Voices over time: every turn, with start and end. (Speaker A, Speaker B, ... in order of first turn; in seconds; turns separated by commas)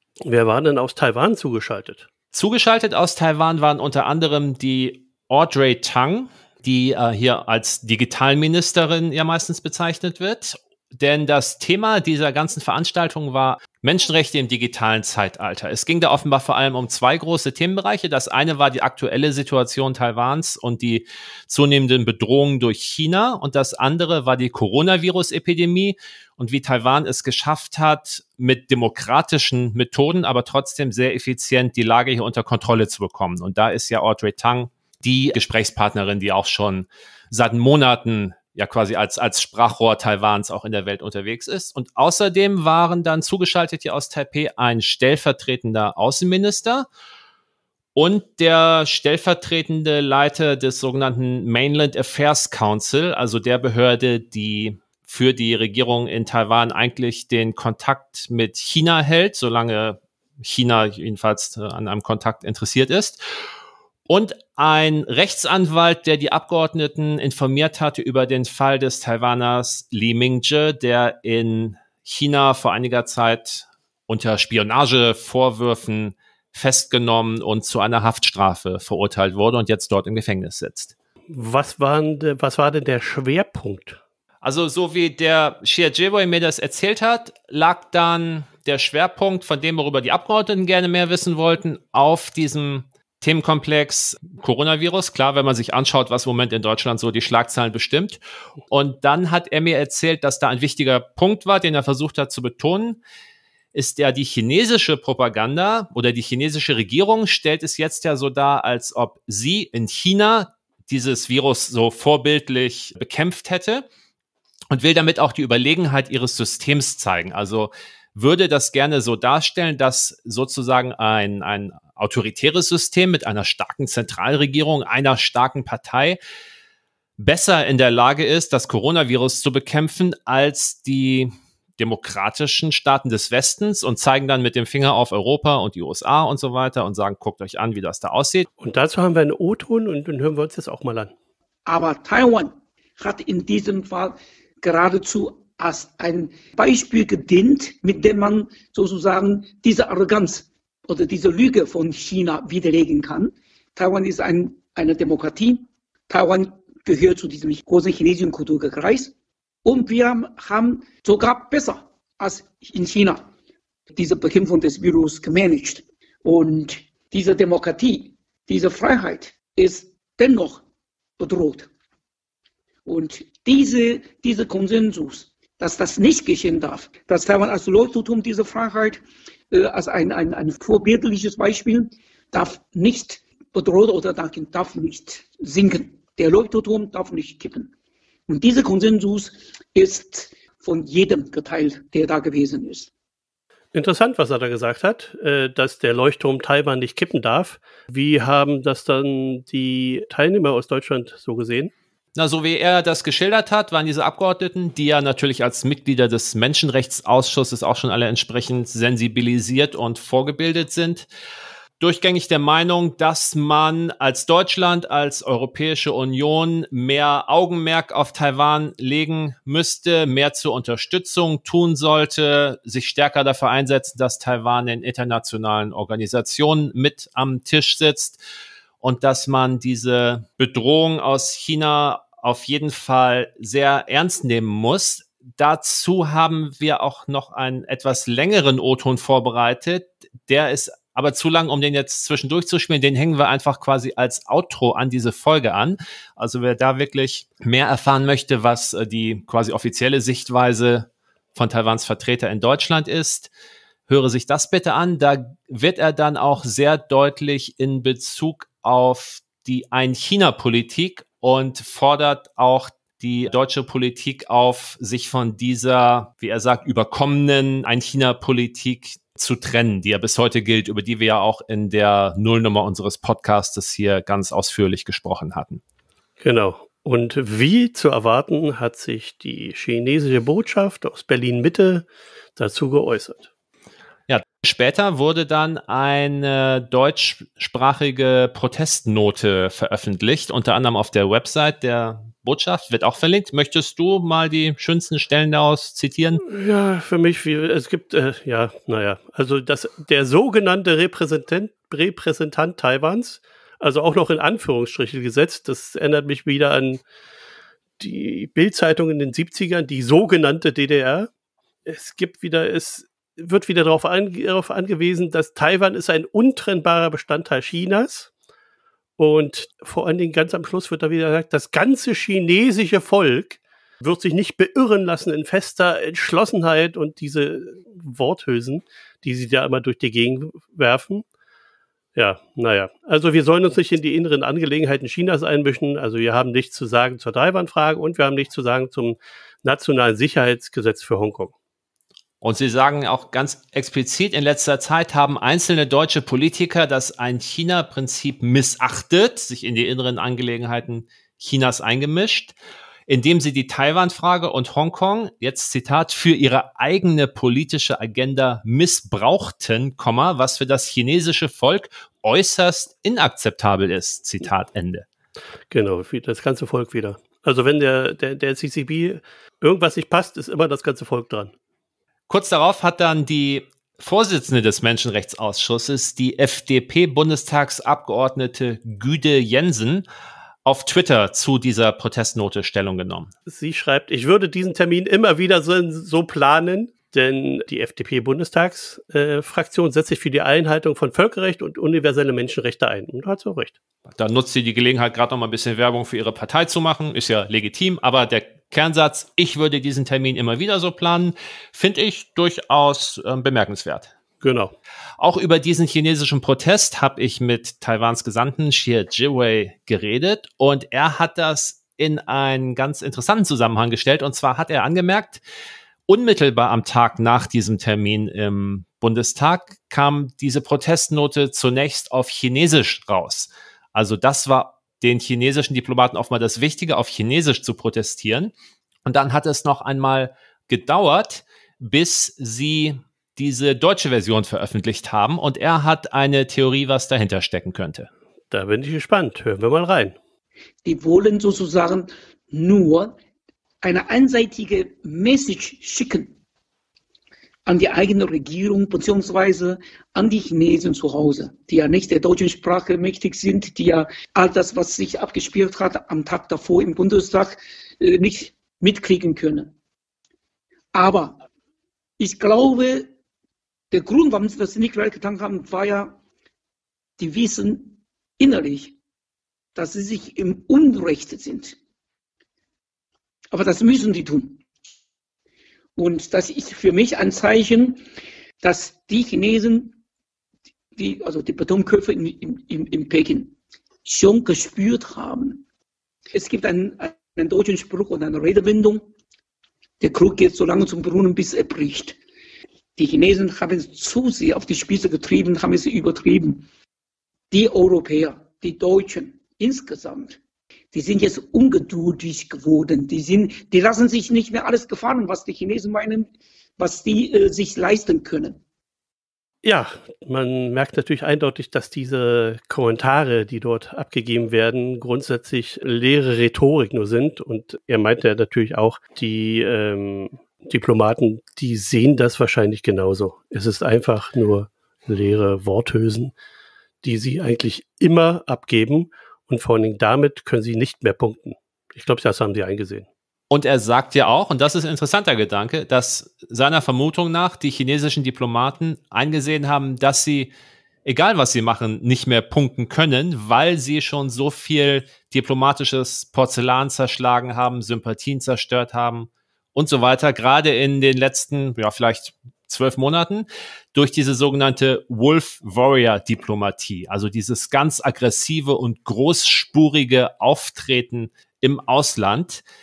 Speaker A: 0.2-2.1, Speaker B: 2.3-46.9, Speaker B: 47.9-63.2, Speaker B: 64.1-80.9, Speaker A: 81.3-84.0, Speaker B: 84.4-103.0, Speaker B: 103.7-113.8, Speaker B: 114.7-126.2, Speaker B: 127.2-138.5, Speaker A: 138.6-141.1, Speaker C: 141.7-159.1, Speaker C: 159.6-163.3, Speaker C: 163.9-170.6, Speaker C: 171.2-171.7, Speaker C: 172.8-187.7, Speaker C: 188.3-192.9, Speaker A: 193.7-201.7, Speaker B: 202.1-211.1, Speaker B: 211.8-228.2, Speaker B: 228.8-253.3, Speaker B: 253.9-275.6, Speaker A: 276.2-283.3, Speaker B: 284.1-296.2, Speaker A: 296.2-306.8, Speaker A: 307.8-311.1, Speaker A: 311.6-318.1, Speaker A: 319.0-331.0, Speaker A: 331.9-341.3, Speaker B: 342.2-352.3, Speaker B: 352.9-364.9, Speaker A: 365.5-371.3, Speaker B: 372.1-379.8, Speaker B: 380.4-383.1, Speaker A: 383.3-393.6, Speaker B: 393.9-403.9, Speaker A: 404.2-404.5, Speaker B: 405.0-415.2, Speaker B: 415.9-428.3, Speaker B: 428.8-437.9, Speaker A: 438.3-439.9, Speaker C: 440.6-443.0, Speaker C: 443.6-446.1, Speaker C: 447.4-459.5, Speaker C: 460.7-461.2, Speaker C: 462.0-462.9, Speaker C: 463.7-466.0, Speaker C: 467.0-468.8, Speaker C: 469.5-471.6, Speaker C: 473.3-474.4, Speaker C: 475.8-477.8, Speaker C: 478.4-479.8, Speaker C: 480.8-485.4, Speaker C: 486.1-488.9, Speaker C: 489.8-492.0, Speaker C: 492.8-496.4, Speaker C: 497.3-500.2, Speaker C: 500.7-508.4, Speaker A: 509.4-526.1, Speaker A: 526.8-532.9, Speaker B: 533.3-540.3, Speaker B: 540.8-562.4